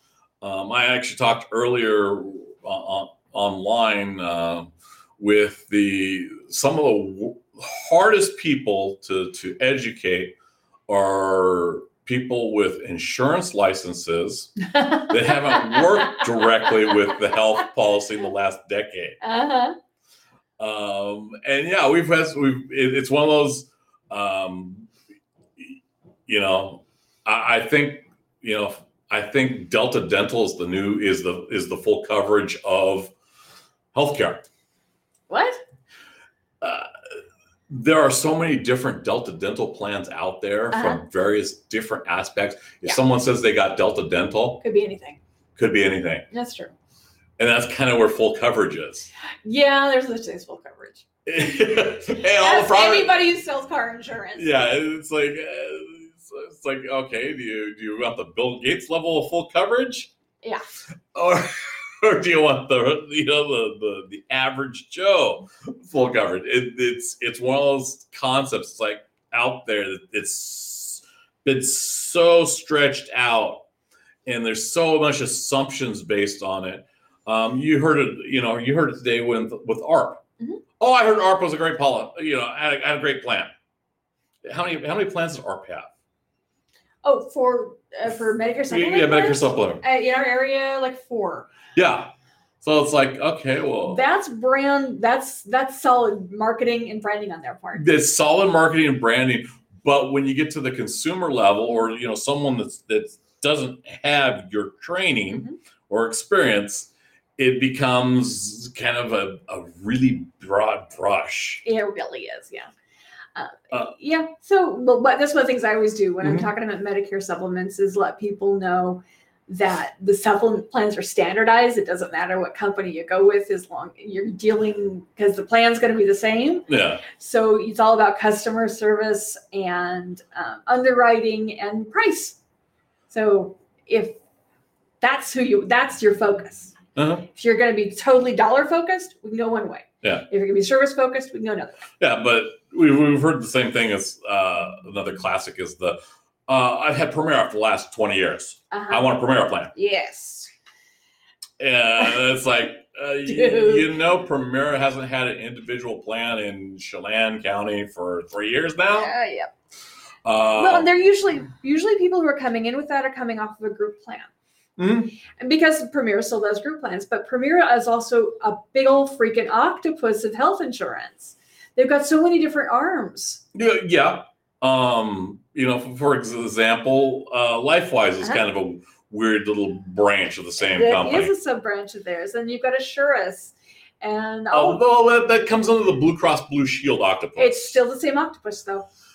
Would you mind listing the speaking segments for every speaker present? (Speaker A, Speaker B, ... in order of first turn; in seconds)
Speaker A: 0.4-10.3, 10.9-19.2, 20.6-24.9, 26.3-33.1, 33.9-34.4, 36.6-36.9, 37.7-44.6, 45.5-46.2, 47.4-49.1, 51.2-53.2, 54.4-60.1, 61.1-73.6, 74.2-80.2, 80.8-83.5, 84.4-85.9, 88.7-89.8, 91.7-92.1, 92.6-94.0, 97.8-111.6, 116.2-116.5, 126.7-127.0, 136.9-137.2, 142.0-149.7, 151.6-159.1, 160.2-160.9, 164.8-165.1, 173.5-181.3, 184.5-187.8
Speaker B: 14.7-16.9, 19.2-19.8, 35.3-35.6, 40.7-41.0, 44.6-45.2, 46.3-46.7, 49.4-51.0, 52.4-54.5, 87.0-91.5, 93.8-97.8, 111.6-112.7, 113.3-132.4, 133.1-134.2, 135.0-136.7, 137.3-141.8, 148.7-149.1, 149.7-150.5, 153.2-153.9, 159.0-159.5, 160.6-164.3, 165.4-173.4, 180.6-184.8, 187.4-188.9